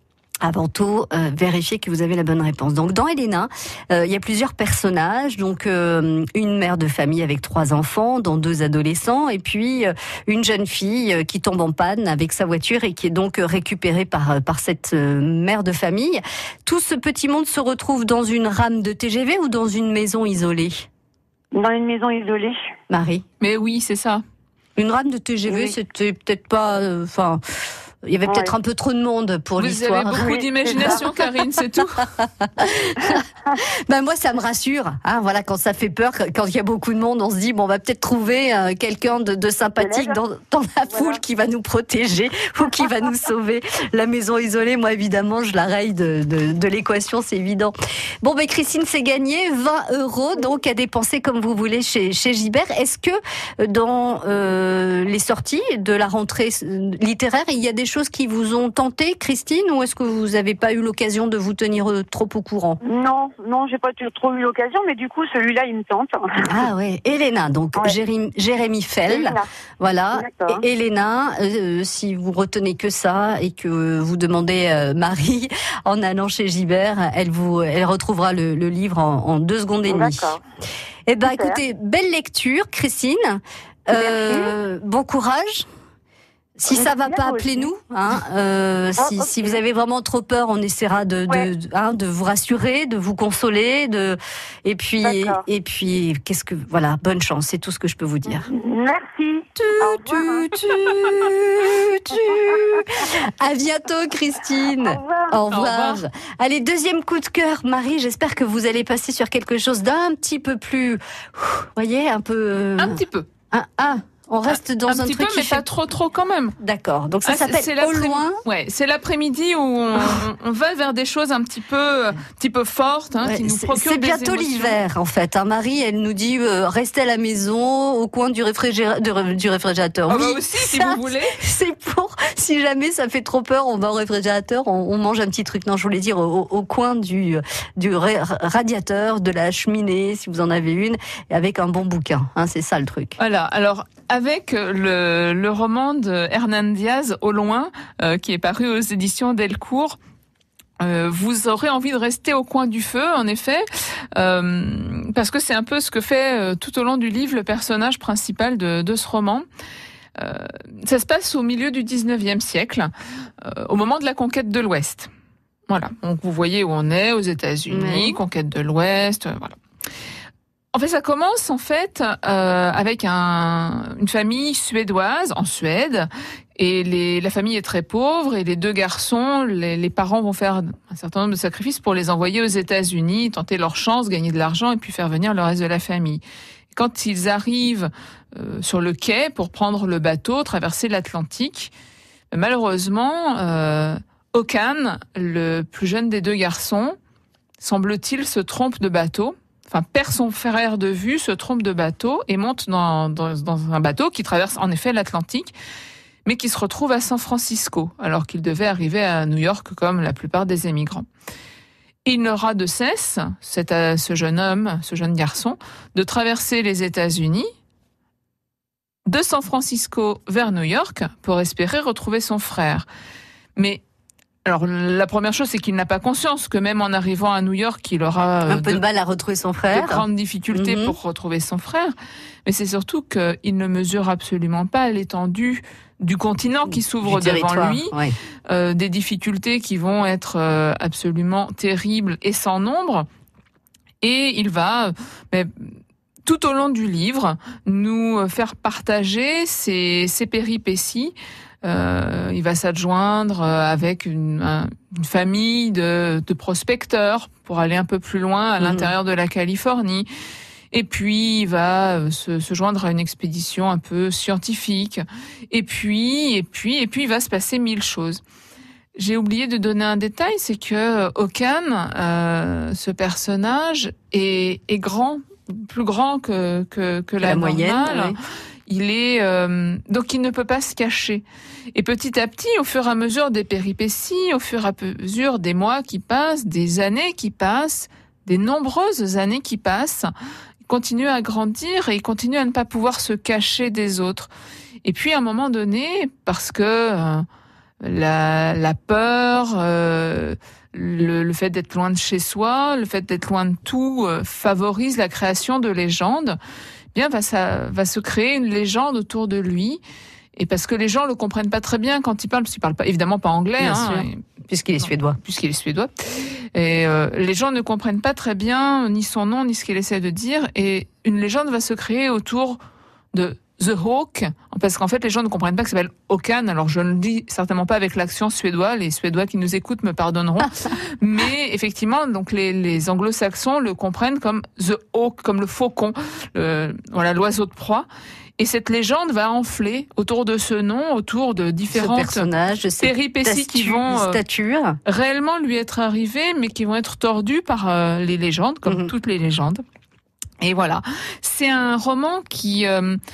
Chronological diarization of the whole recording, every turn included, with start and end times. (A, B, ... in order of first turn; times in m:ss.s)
0:00.4-0:20.9 A
0:21.5-0:22.6 B
0:22.9-0:23.2 A
0:23.4-0:24.2 C
0:24.8-0:27.4 A
0:25.5-0:25.7 B
0:28.0-0:31.0 A
0:28.2-0:28.5 B
0:29.6-0:32.1 C
0:30.1-0:31.0 B
0:32.2-0:33.2 A
0:33.9-1:02.8 A
0:39.8-0:40.2 B
0:40.9-0:41.2 B
1:02.8-1:06.5 B
1:06.5-1:20.3 A
1:09.1-1:09.5 B
1:10.1-1:10.6 B
1:19.8-1:20.4 B
1:21.1-1:25.7 A
1:21.2-1:21.6 B
1:23.9-1:24.5 B
1:26.6-1:38.5 A
1:26.7-1:27.7 B
1:29.0-1:29.6 B
1:35.0-1:35.4 B
1:38.3-1:40.6 B
1:39.6-1:53.0 A
1:42.3-1:42.8 B
1:44.7-1:45.3 B
1:45.5-1:46.0 C
1:52.8-1:53.3 C
1:53.5-1:55.6 A
1:54.9-1:56.5 C
1:56.6-1:58.4 A
1:57.2-2:04.8 C
2:03.2-2:23.2 A
2:10.1-2:11.4 C
2:23.2-2:30.0 C
2:30.8-2:39.4 C
2:40.2-2:42.9 C
2:43.4-2:45.1 C
2:45.7-2:49.6 C
2:47.7-2:48.2 A
2:50.7-3:06.2 C
3:06.7-3:11.7 C
3:12.3-3:17.0 C
3:17.6-3:25.5 C
3:26.2-3:31.0 C
3:32.0-3:37.5 C
3:39.0-3:42.9 C
3:43.6-3:43.8 C
3:44.4-3:48.8 C
3:48.5-3:50.9 A
3:49.7-3:51.9 C
3:52.4-3:57.9 C
3:56.7-3:58.1 A
3:58.5-4:03.0 C
4:04.0-4:05.7 C
4:06.2-4:20.1 C
4:18.6-4:18.9 A
4:20.7-4:28.2 C
4:29.0-4:38.1 C
4:37.2-4:38.2 A
4:38.7-4:50.1 C
4:50.7-4:54.3 C
4:54.8-4:57.2 C
4:57.8-5:06.4 C
5:06.9-5:09.8 C
5:10.4-5:14.2 C
5:13.6-5:15.2 A
5:14.8-5:15.9 C
5:16.5-5:22.6 C
5:23.1-5:37.9 C
5:38.4-5:42.3 C
5:41.7-5:44.8 A
5:42.8-5:44.2 C
5:44.8-5:49.6 C
5:48.6-5:48.9 A
5:50.4-5:53.0 C